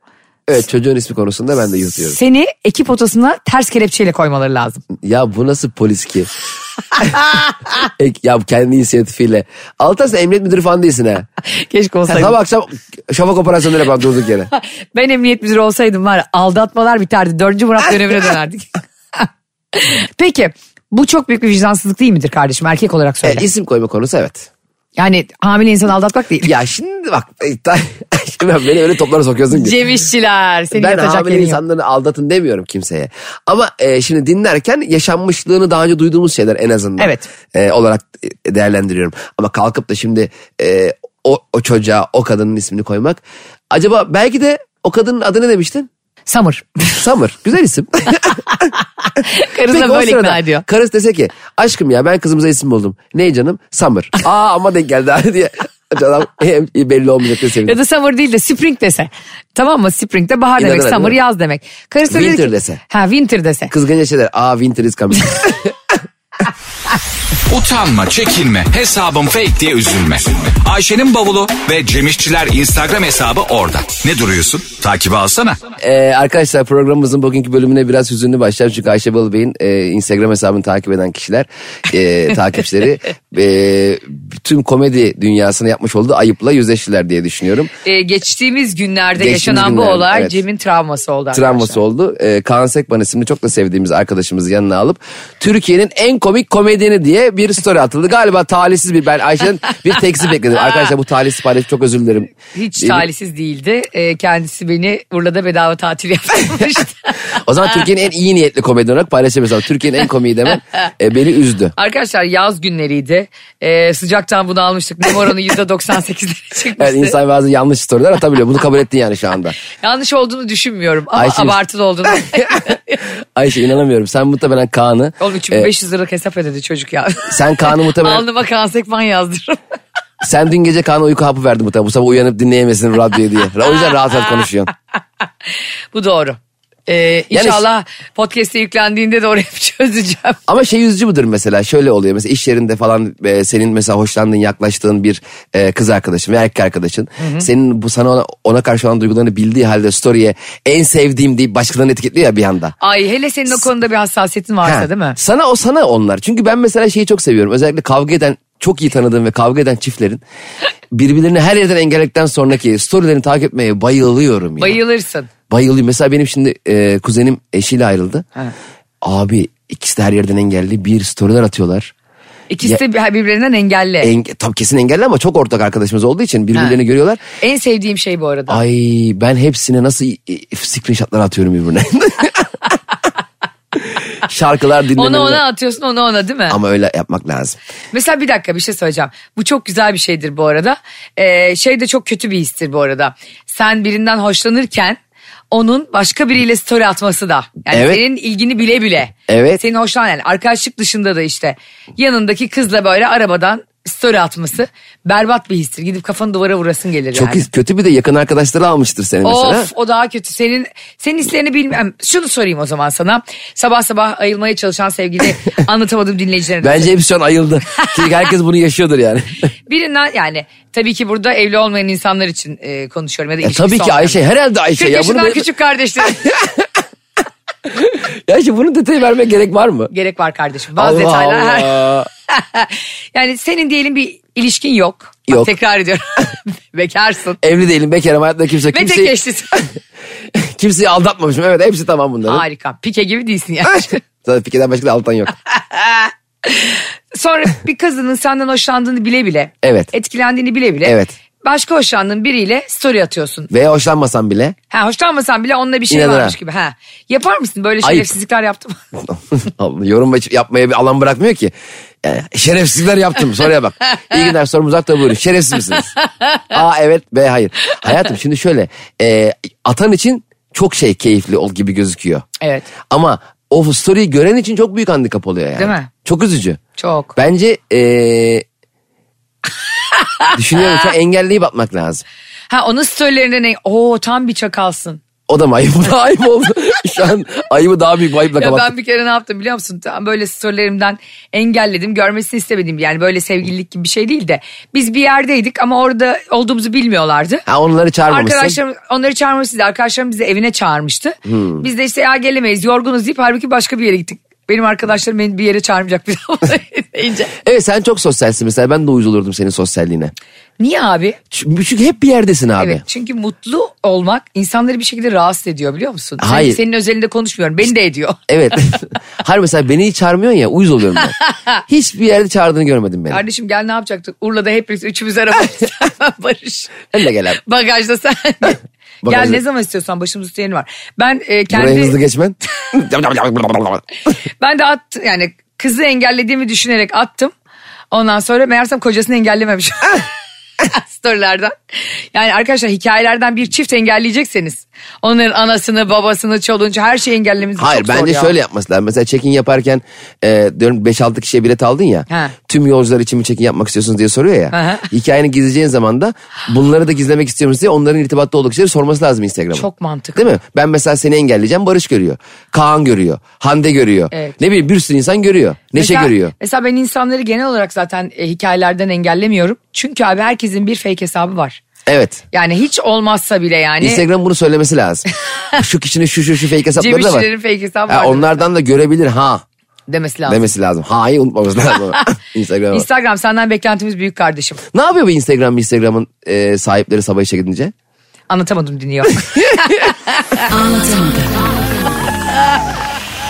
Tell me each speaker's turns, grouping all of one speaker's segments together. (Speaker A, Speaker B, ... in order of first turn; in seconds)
Speaker A: 0.5-2.2, 5.0-6.3, 7.8-11.3, 12.1-14.5, 23.2-24.5, 26.4-29.8, 30.7-45.9, 46.9-48.7, 49.6-57.8, 60.6-61.2, 62.1-62.8, 63.7-65.7, 75.8-87.7, 89.2-90.4, 91.3-103.1, 107.3-111.7, 116.8-119.6, 121.1-121.6, 122.3-122.6, 123.3-125.7, 127.3-128.2, 130.2-134.7, 137.3-137.6, 140.5-152.8, 154.6-160.2, 160.9-164.8, 165.5-168.2, 169.0-171.9, 174.0-177.2, 178.5-182.7, 184.2-185.4, 186.5-187.6, 197.7-198.0, 199.3-199.6, 207.1-209.7, 216.6-219.4, 223.4-225.5, 226.1-226.7, 227.7-229.9, 230.8-232.1, 235.3-235.5, 237.4-239.6, 240.3-242.4, 244.2-245.4, 249.6-249.9, 250.8-251.1, 253.5-254.6, 255.9-256.4, 257.8-258.1, 259.0-265.9, 266.5-272.2, 272.8-276.6, 277.1-278.4, 280.3-282.0, 285.3-288.7, 297.5-298.6, 301.2-301.6, 307.4-310.1, 311.3-312.8, 316.2-316.6, 318.3-321.1, 321.7-323.2, 326.9-327.4, 329.0-329.4, 331.5-333.8, 347.6-366.3, 371.9-372.2, 373.8-377.3, 377.9-379.4, 380.3-382.9, 384.7-387.7
Speaker B: 2.0-4.8, 7.1-7.5, 11.5-12.3, 14.6-23.5, 25.0-26.5, 29.5-31.6, 37.0-37.3, 46.3-46.9, 48.5-50.6, 57.6-63.7, 87.8-91.8, 102.5-107.2, 111.8-117.2, 119.8-123.0, 125.2-129.6, 135.9-140.4, 147.2-147.5, 152.8-155.2, 164.6-165.3, 172.5-174.1, 177.4-178.6, 184.9-186.6, 187.9-195.0, 195.5-207.4, 209.2-216.9, 219.7-224.2, 224.8-226.2, 229.9-237.4, 238.7-239.6, 242.3-244.0, 245.7-253.5, 254.7-258.8, 266.0-266.4, 272.4-272.7, 275.6-275.9, 276.8-277.1, 282.5-285.0, 288.4-297.5, 298.1-307.3, 310.6-311.2, 312.6-318.2, 323.1-326.8, 327.4-331.9, 334.4-337.3, 337.9-340.1, 340.6-341.5, 342.1-348.3, 354.5-354.9, 359.5-360.4, 365.8-371.6, 372.3-374.0, 376.8-378.4, 379.9-380.5, 382.7-384.6, 388.3-391.4
Speaker C: 67.5-75.6